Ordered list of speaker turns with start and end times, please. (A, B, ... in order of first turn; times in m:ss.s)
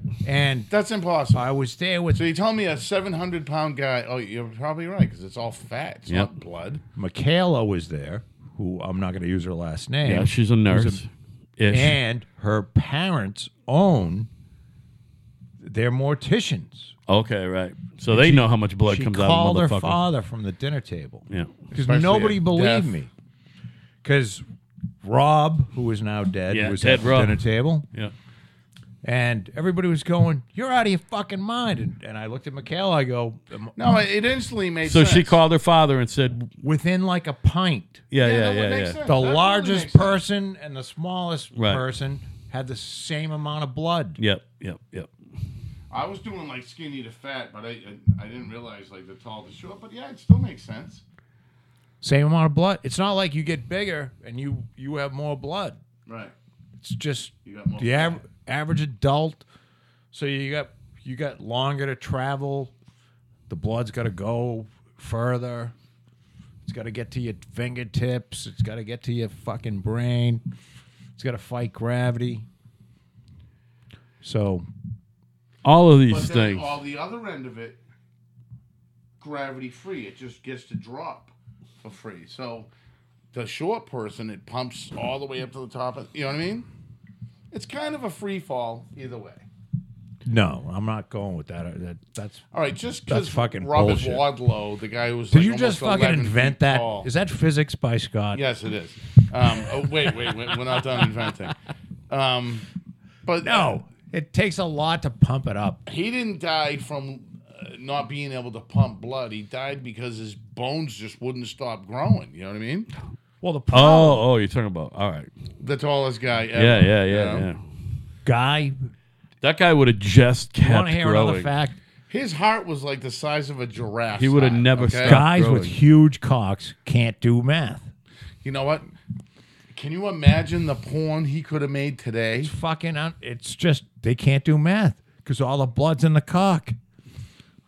0:00.2-0:00.7 A
0:00.7-0:01.4 B
0:01.3-0:02.2 A
0:02.1-0:06.8 B
0:07.0-0:11.0 A
0:10.0-0:12.0 C
0:11.7-0:14.3 A
0:15.6-0:16.9 A
0:17.1-0:20.0 C
0:18.1-0:23.1 A
0:21.3-0:21.6 C
0:21.8-0:22.9 B
0:24.0-0:24.4 A
0:25.0-0:27.8 A
0:26.5-0:28.1 C
0:29.0-0:33.7 A
0:33.8-0:35.4 B
0:34.8-0:36.5 C
0:36.6-0:38.0 A
0:38.1-0:39.0 C
0:38.2-0:40.2 B
0:39.0-0:44.2 A
0:41.5-0:41.8 C
0:44.2-0:45.1 C
0:45.9-0:51.0 B
0:52.0-0:55.8 A
0:56.1-0:56.3 B
0:56.8-0:59.4 A
0:57.4-0:58.2 B
1:00.1-1:02.7 A
1:03.5-1:05.7 A
1:06.6-1:10.4 A
1:11.2-1:12.4 A
1:14.2-1:14.7 A
1:15.6-1:16.8 C
1:16.1-1:17.8 B
1:19.2-1:21.3 B
1:21.8-1:22.7 B
1:23.3-1:26.6 B
1:27.5-1:29.4 B
1:30.2-1:32.4 A
1:32.5-1:37.1 B
1:33.1-1:34.2 A
1:35.3-1:38.4 A
1:38.3-1:41.6 B
1:42.1-1:42.6 B
1:43.2-1:43.8 B
1:43.4-1:45.8 A
1:45.9-1:52.9 B
1:53.4-1:54.2 A
1:53.7-1:55.3 C
1:55.6-1:57.5 B
1:56.6-1:57.6 C
1:58.2-1:58.9 A
1:59.4-2:01.5 C
2:00.6-2:01.8 A
2:02.1-2:05.2 B
2:04.2-2:05.7 C
2:05.0-2:07.9 A
2:08.4-2:08.9 B
2:09.7-2:12.5 B
2:12.4-2:16.8 A